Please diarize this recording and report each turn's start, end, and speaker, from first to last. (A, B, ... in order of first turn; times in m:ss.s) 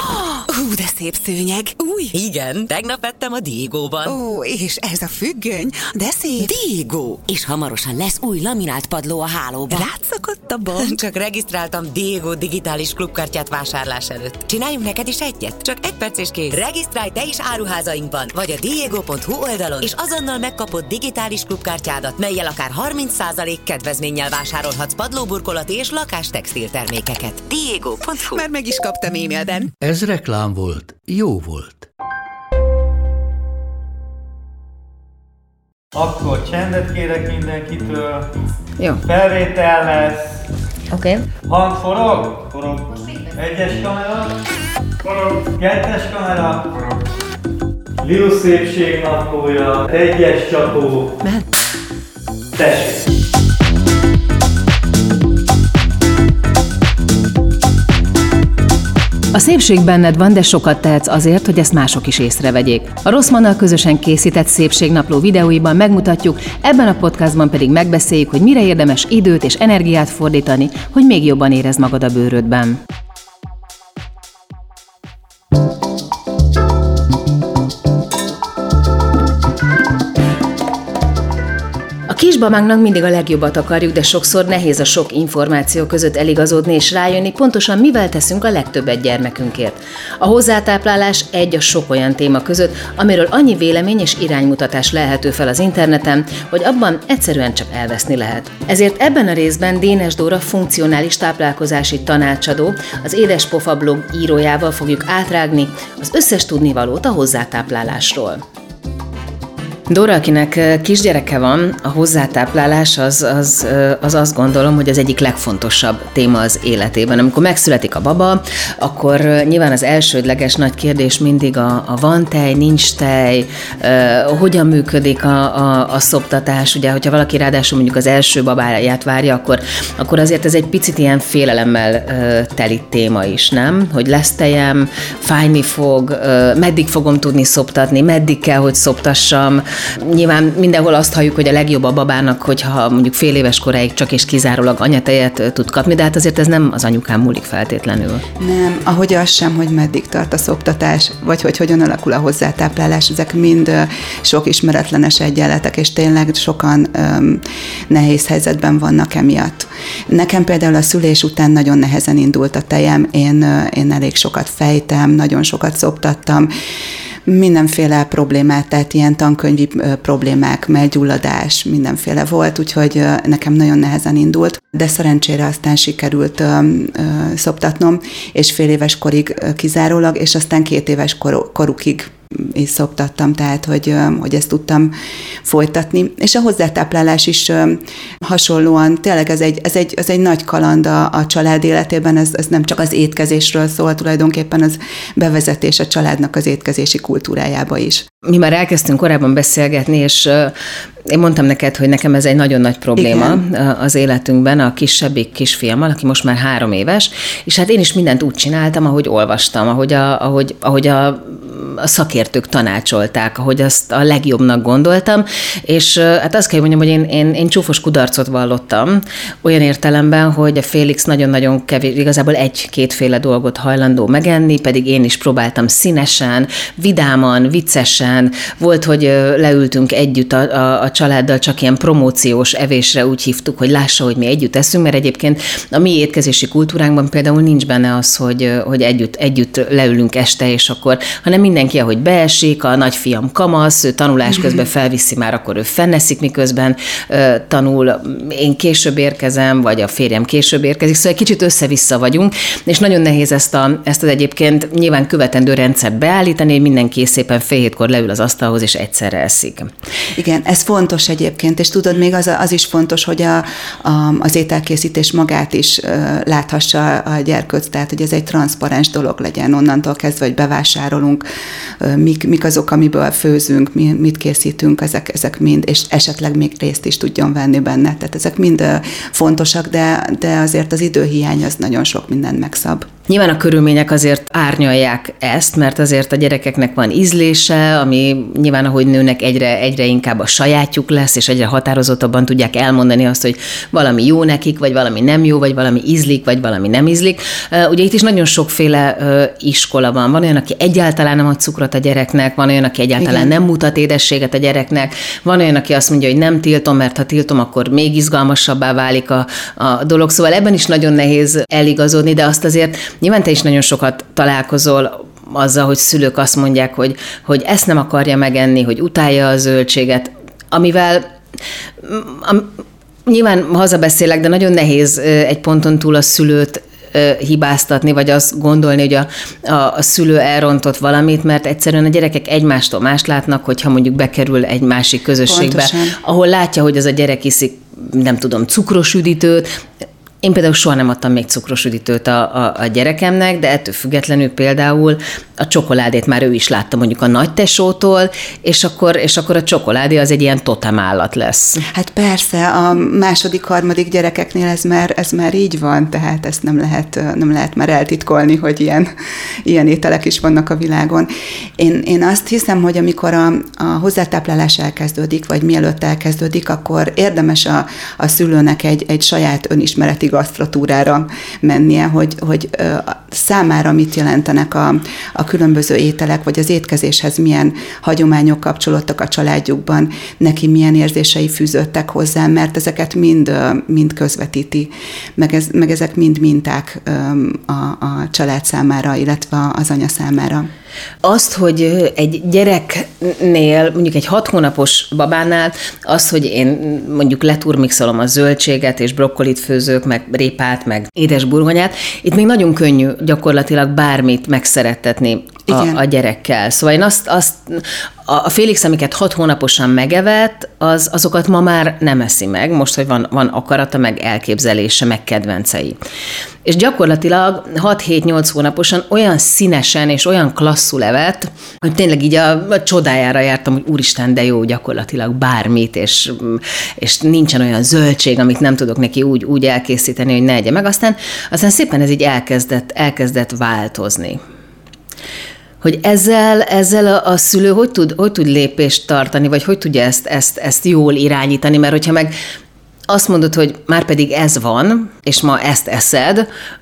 0:00.1-0:02.1 A
0:02.1-0:04.2 B
0:04.0-0:06.6 A
0:06.4-0:10.0 B
0:09.7-0:11.0 A
0:10.6-0:28.5 B
0:28.5-0:29.7 A
0:29.8-0:31.9 C
0:35.9-0:38.3 D
0:39.0-0:40.4 D
0:40.9-0:41.2 A
0:41.5-0:44.4 D
0:45.0-0:46.8 D
0:48.0-0:51.1 D
0:52.6-0:53.0 D
0:59.3-1:12.8 E
1:22.1-1:48.4 E
1:49.9-2:28.2 E
2:28.4-2:46.5 F
2:47.2-3:18.1 F
3:18.2-3:20.5 E
3:21.1-4:19.7 E
3:23.0-3:23.4 F
4:20.2-4:31.2 F
4:31.8-4:42.9 F
4:43.1-5:21.1 E
5:03.0-5:03.3 F
5:21.8-5:22.5 E
5:23.1-5:39.5 E
5:35.3-5:36.0 F
5:40.2-5:51.6 E
5:51.7-5:58.9 F
5:59.4-6:30.5 F
6:31.0-6:55.8 E
6:45.5-6:45.8 F
6:56.5-7:14.2 E
7:15.6-7:22.1 E
7:22.9-7:26.3 E